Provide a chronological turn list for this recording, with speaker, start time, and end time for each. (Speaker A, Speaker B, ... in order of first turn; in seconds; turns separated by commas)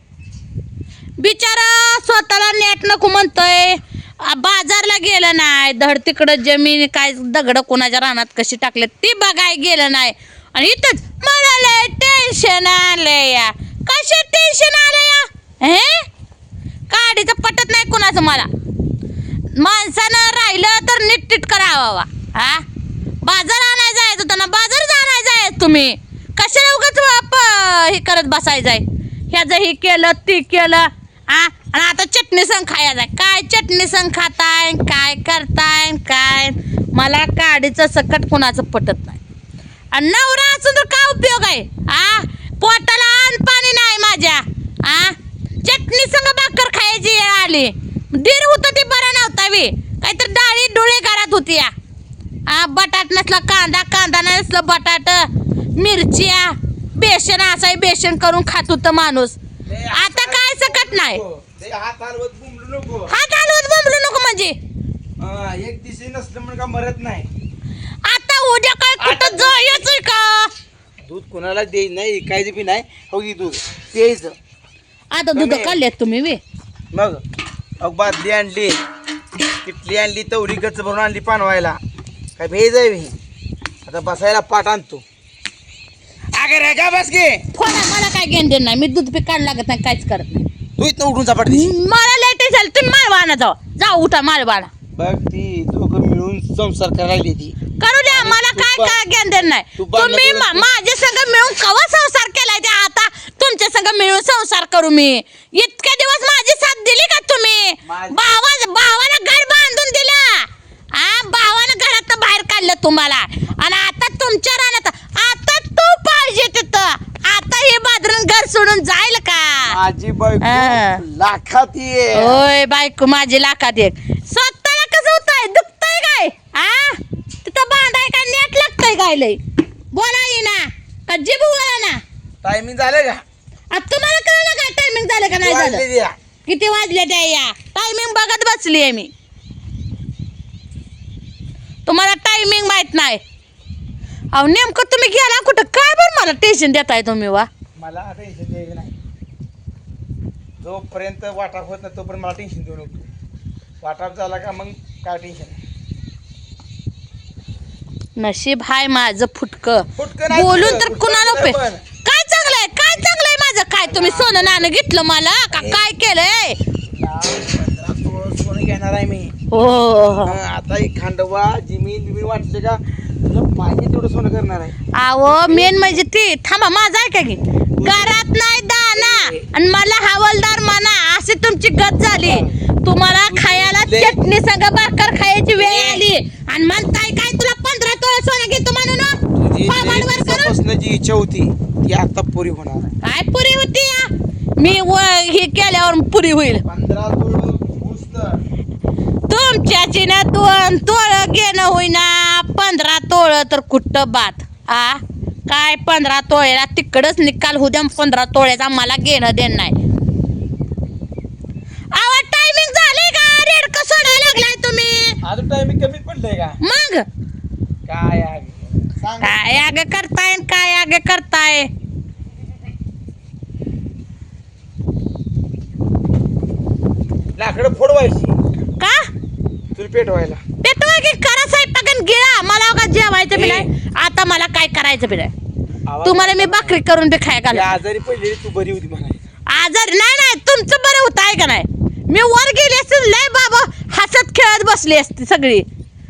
Speaker A: 1.2-16.1, Speaker A: 16.9-18.5, Speaker A: 19.5-22.6, Speaker A: 23.2-39.2, Speaker A: 39.9-51.7, Speaker A: 52.5-59.4, Speaker B: 59.6-63.1, Speaker A: 59.9-61.2, Speaker A: 63.1-64.5, Speaker B: 65.2-67.3, Speaker A: 68.0-70.5, Speaker B: 69.0-69.9, Speaker B: 71.0-74.3, Speaker A: 75.1-76.4, Speaker B: 75.3-75.8, Speaker B: 76.9-77.2, Speaker B: 77.8-78.8, Speaker B: 79.6-81.8, Speaker B: 82.4-83.1, Speaker B: 83.8-85.0, Speaker B: 86.3-87.4, Speaker A: 87.5-90.5, Speaker B: 90.8-91.8, Speaker A: 91.5-94.7, Speaker B: 94.9-97.5, Speaker A: 97.8-119.8, Speaker B: 98.1-99.0, Speaker B: 99.8-100.7, Speaker B: 107.8-108.2, Speaker B: 119.7-122.4, Speaker A: 120.4-121.0, Speaker A: 122.1-129.4, Speaker A: 129.9-132.0, Speaker B: 132.4-133.2, Speaker A: 133.7-135.8, Speaker B: 135.3-136.1, Speaker A: 136.5-139.1, Speaker A: 141.8-143.2, Speaker A: 144.3-147.5, Speaker B: 147.8-148.9, Speaker B: 150.6-153.1, Speaker B: 153.8-155.6, Speaker A: 158.2-166.6, Speaker B: 159.9-161.8, Speaker B: 163.8-164.7, Speaker B: 165.5-165.8, Speaker B: 166.8-169.4, Speaker A: 169.5-170.4, Speaker B: 170.2-176.0, Speaker A: 174.9-190.5, Speaker B: 177.8-178.2, Speaker B: 178.9-179.4, Speaker B: 182.2-182.6, Speaker B: 183.3-184.2, Speaker B: 185.6-186.0, Speaker B: 189.3-192.9, Speaker A: 193.0-196.6, Speaker B: 196.6-198.4, Speaker A: 199.3-209.8, Speaker A: 211.9-215.2, Speaker B: 215.2-216.6, Speaker A: 216.6-217.0, Speaker B: 217.8-219.6, Speaker A: 219.2-221.7, Speaker B: 227.3-228.4, Speaker A: 228.8-229.1, Speaker B: 229.7-230.4, Speaker A: 230.6-235.3, Speaker B: 233.3-233.7, Speaker B: 235.9-236.8, Speaker A: 236.0-237.7, Speaker B: 237.5-239.2, Speaker A: 239.5-245.6